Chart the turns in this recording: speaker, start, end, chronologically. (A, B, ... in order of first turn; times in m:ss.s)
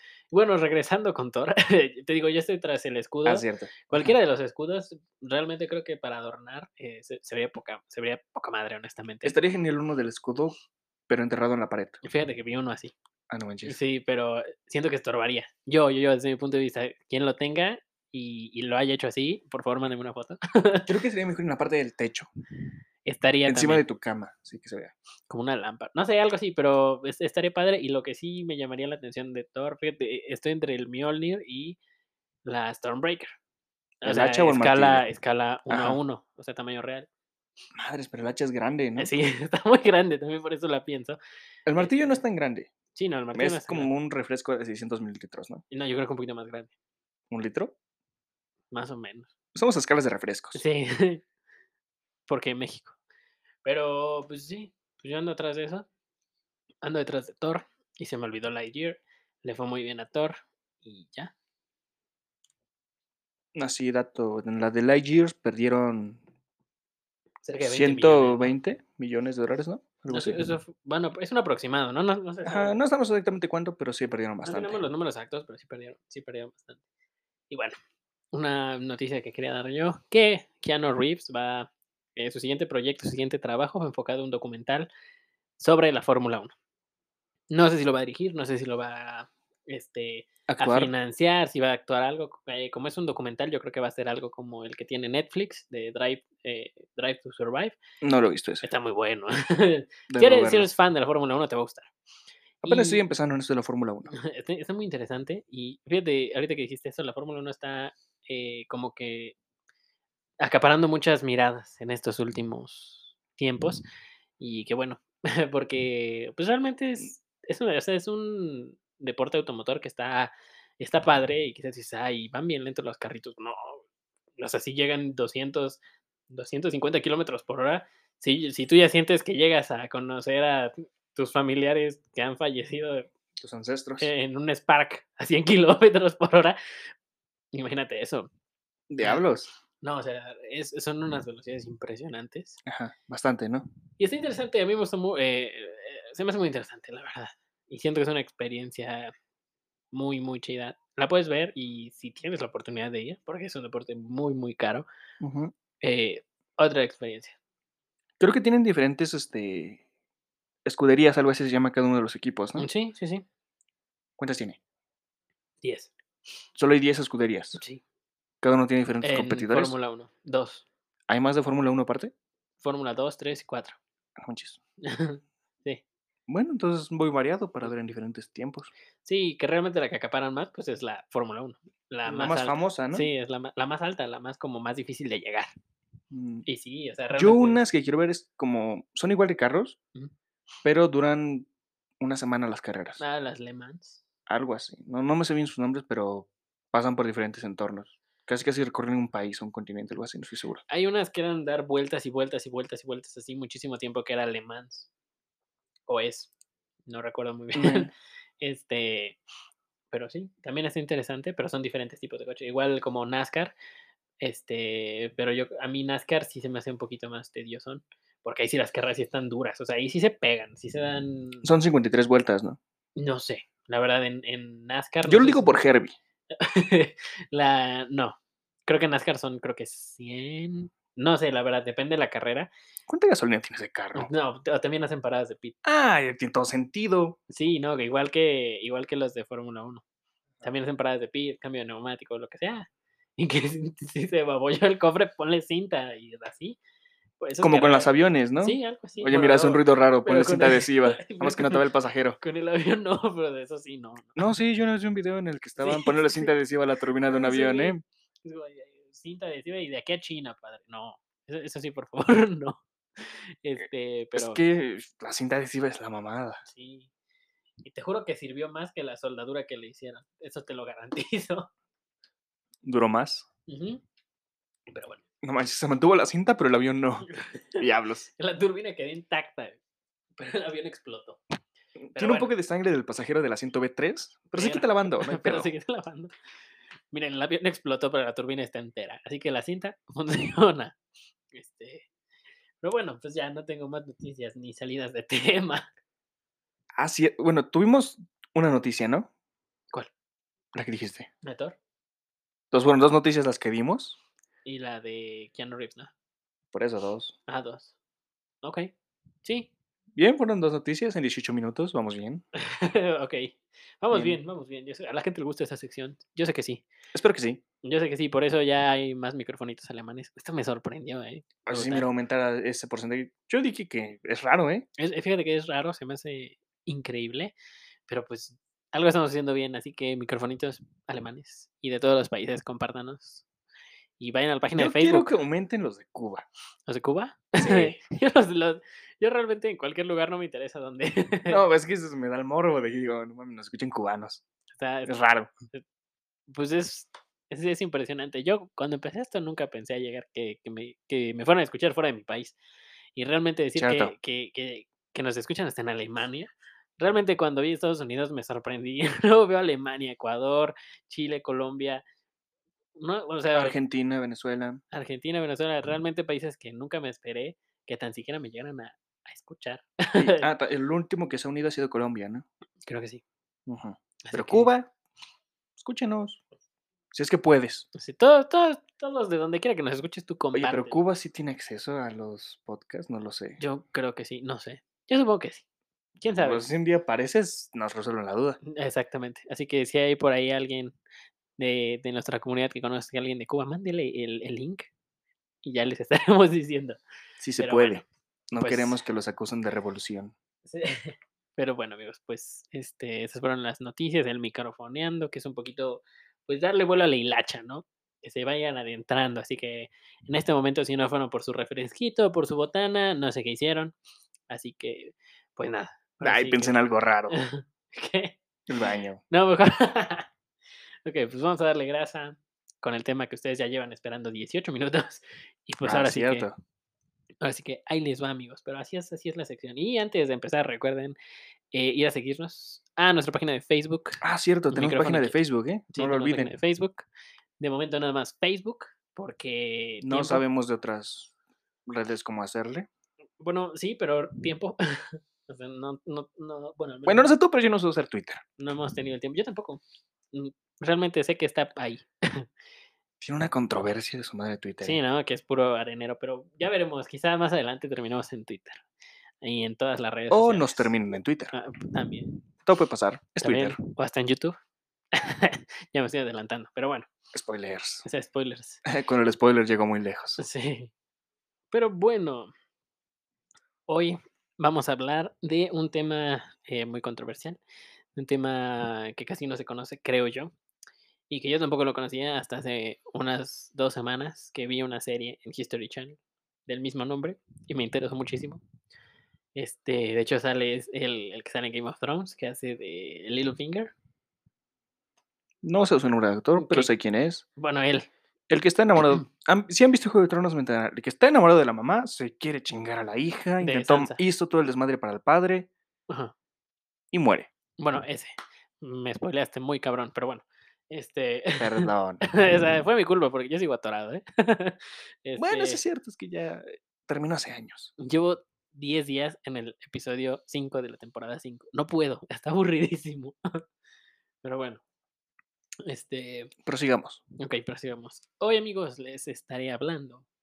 0:00.3-0:09.4 A
0:03.2-0:04.2 B
0:09.2-0:12.0 B
0:12.0-0:12.9 A
0:13.3-0:13.8 B
0:13.6-0:20.9 A
0:20.9-0:22.3 B
0:23.0-0:23.8 A
0:23.5-0:24.9 B
0:25.3-0:31.8 A
0:32.4-0:33.4 A
0:34.0-0:37.1 A
0:34.0-0:35.0 B
0:35.7-0:36.0 B
0:37.8-0:39.1 B
0:39.0-0:41.2 A
0:41.7-0:42.7 B
0:41.8-0:42.2 A
0:43.0-0:43.9 A
0:43.3-0:45.6 B
0:45.7-0:46.7 A
0:47.3-0:47.7 B
0:48.7-0:49.3 A
0:49.6-0:50.6 B
0:50.5-0:51.2 A
0:52.3-0:52.9 A
0:53.6-0:55.9 A
0:56.8-1:01.3 A
1:03.6-1:06.2 B
1:07.4-1:08.5 A
1:07.6-1:10.5 B
1:10.1-1:12.8 A
1:12.4-1:14.8 B
1:14.4-1:16.8 A
1:17.5-1:17.8 A
1:18.3-1:24.9 A
1:25.6-1:26.5 A
1:27.5-1:37.8 A
1:30.5-1:30.9 B
1:38.0-1:38.7 B
1:38.6-1:41.9 A
1:40.1-1:40.7 B
1:42.6-1:44.1 B
1:42.7-1:43.0 A
1:44.1-1:49.4 A
1:50.4-1:53.8 A
1:54.4-2:03.8 A
2:04.4-2:13.1 A
2:13.4-2:14.1 B
2:14.0-2:16.6 A
2:17.5-2:18.3 A
2:18.9-2:19.5 B
2:19.8-2:22.6 A
2:22.6-2:23.7 B
2:24.0-2:29.1 A
2:29.9-2:34.9 A
2:35.2-2:35.5 B
2:35.8-2:37.4 A
2:38.2-2:39.8 B
2:40.6-2:42.7 B
2:42.6-2:43.2 A
2:44.2-2:44.6 B
2:45.6-2:45.9 A
2:46.6-2:47.6 B
2:47.6-2:47.8 A
2:48.4-2:49.8 B
2:49.0-2:50.6 A
2:51.1-2:52.1 B
2:52.6-2:53.8 A
2:54.2-2:54.6 B
2:54.8-2:55.8 A
2:56.3-2:58.7 B
2:59.0-3:05.5 A
3:02.1-3:03.1 B
3:06.1-3:06.5 B
3:06.5-3:07.6 A
3:07.1-3:09.8 B
3:10.6-3:11.5 B
3:12.0-3:13.0 B
3:13.0-3:14.0 A
3:14.3-3:20.6 B
3:20.7-3:24.9 A
3:25.9-3:26.3 A
3:26.9-3:29.2 A
3:27.6-3:27.9 B
3:29.9-3:33.5 A
3:34.2-3:41.5 A
3:41.4-3:42.6 B
3:43.0-3:45.5 A
3:45.0-3:46.0 B
3:46.3-3:52.5 A
3:52.9-3:54.1 B
3:54.0-3:55.6 A
3:55.6-3:57.2 B
3:57.3-3:59.8 A
4:00.4-4:06.6 A
4:07.2-4:11.7 A
4:07.4-4:12.2 B
4:12.2-4:14.3 A
4:14.2-4:17.8 B
4:15.6-4:16.3 A
4:17.0-4:24.4 A
4:24.1-4:26.4 B
4:26.4-4:26.9 A
4:27.6-4:31.5 A
4:32.6-4:33.3 B
4:33.5-4:33.8 A
4:34.7-4:35.0 A
4:35.2-4:38.1 B
4:37.1-4:37.7 A
4:38.2-4:39.6 A
4:40.2-4:41.2 A
4:41.8-4:45.5 B
4:42.0-4:42.3 A
4:44.4-4:46.1 A
4:46.9-4:50.8 A
4:51.3-4:51.9 A
4:52.6-4:55.7 A
4:56.8-4:59.1 B
5:00.5-5:01.1 B
5:01.2-5:01.6 A
5:02.5-5:04.0 B
5:04.4-5:05.9 A
5:06.5-5:07.2 B
5:07.3-5:07.7 A
5:08.4-5:08.7 A
5:09.2-5:09.5 A
5:10.0-5:12.2 B
5:12.4-5:16.6 A
5:13.9-5:14.2 B
5:16.9-5:17.4 B
5:17.6-5:21.9 A
5:21.5-5:24.7 B
5:24.8-5:27.3 A
5:27.9-5:33.2 A
5:34.0-5:35.1 A
5:34.6-5:36.3 B
5:36.7-5:41.4 A
5:37.4-5:37.8 B
5:41.3-5:44.2 B
5:44.5-5:44.9 A
5:44.9-5:45.3 B
5:46.3-5:52.4 A
5:53.0-6:01.8 A
5:53.6-5:53.9 B
6:02.8-6:03.6 A
6:03.3-6:04.6 B
6:04.7-6:10.3 A
6:09.9-6:12.2 B
6:12.6-6:13.0 A
6:13.5-6:14.7 B
6:14.1-6:14.5 A
6:15.6-6:16.2 B
6:16.9-6:17.7 B
6:17.8-6:20.8 A
6:20.3-6:23.4 B
6:23.4-6:25.4 A
6:26.0-6:26.5 A
6:26.0-6:28.4 B
6:28.4-6:30.8 A
6:31.4-6:34.7 A
6:35.4-6:36.8 A
6:37.2-6:40.1 B
6:37.4-6:37.8 A
6:38.4-6:38.8 A
6:40.4-6:53.8 A
6:54.3-6:56.6 A
6:56.0-6:57.2 B
6:57.1-6:58.2 A
6:58.5-6:59.0 B
6:59.1-7:00.1 A
7:00.8-7:06.3 A
7:05.6-7:06.4 B
7:07.2-7:11.0 A
7:11.5-7:15.2 A
7:14.0-7:16.3 B
7:15.7-7:16.9 A
7:17.4-7:20.2 A
7:19.8-7:21.1 B
7:21.7-7:22.7 B
7:23.2-7:27.1 A
7:26.9-7:28.2 B
7:28.4-7:32.3 A
7:33.0-7:34.8 B
7:34.6-7:38.6 A
7:39.2-7:40.8 A
7:40.1-7:41.3 B
7:41.3-7:42.1 A
7:42.4-7:43.6 B
7:43.2-7:44.4 A
7:44.9-7:46.9 A
7:47.1-7:47.9 B
7:47.8-7:48.6 A
7:48.6-7:50.2 B
7:50.2-7:50.7 A
7:51.5-7:52.3 A
7:53.7-7:57.4 A
7:58.0-8:00.3 A
8:01.1-8:08.4 A
8:09.4-8:13.7 A
8:15.4-8:17.2 B
8:16.4-8:16.7 A
8:17.4-8:17.9 A
8:18.3-8:25.5 B
8:23.4-8:24.0 A
8:25.9-8:26.1 A
8:26.9-8:27.3 B
8:27.6-8:35.6 A
8:31.4-8:32.1 B
8:35.2-8:37.7 B
8:37.8-8:43.2 A
8:44.2-8:44.6 A
8:45.7-8:46.3 A
8:46.5-8:47.0 B
8:47.2-8:50.0 A